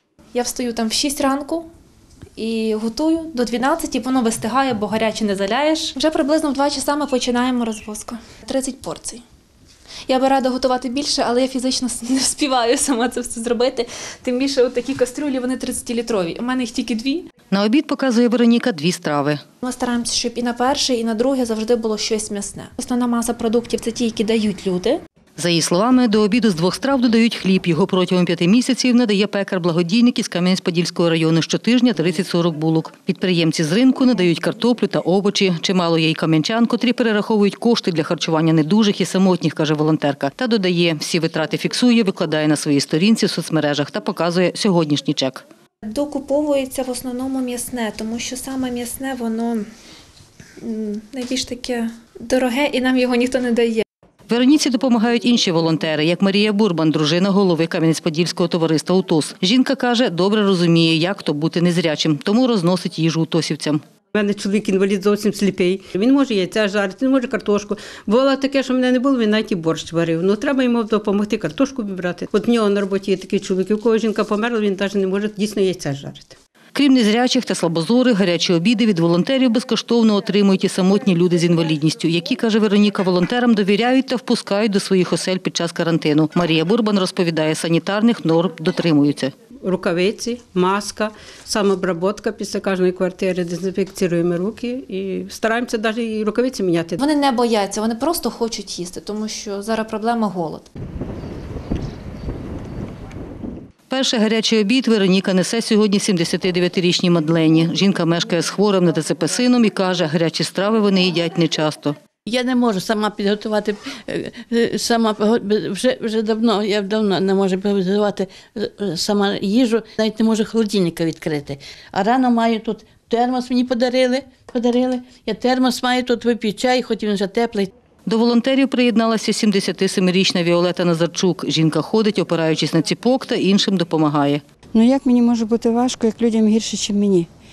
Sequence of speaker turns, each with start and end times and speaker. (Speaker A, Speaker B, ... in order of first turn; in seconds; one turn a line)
Speaker A: 0.3-1.7
Speaker A: 2.4-9.2
Speaker A: 10.1-17.3
Speaker B: 17.5-19.4
Speaker A: 19.6-25.0
Speaker B: 25.4-45.4
Speaker A: 45.9-49.6
Speaker A: 50.6-53.8
Speaker B: 54.3-63.8
Speaker C: 64.1-76.3
Speaker B: 76.7-89.3
Speaker C: 89.6-97.0
Speaker A: 97.0-100.7
Speaker B: 103.9-111.9
Speaker D: 112.2-127.7
Speaker B: 128.1-134.4
Speaker E: 134.7-137.3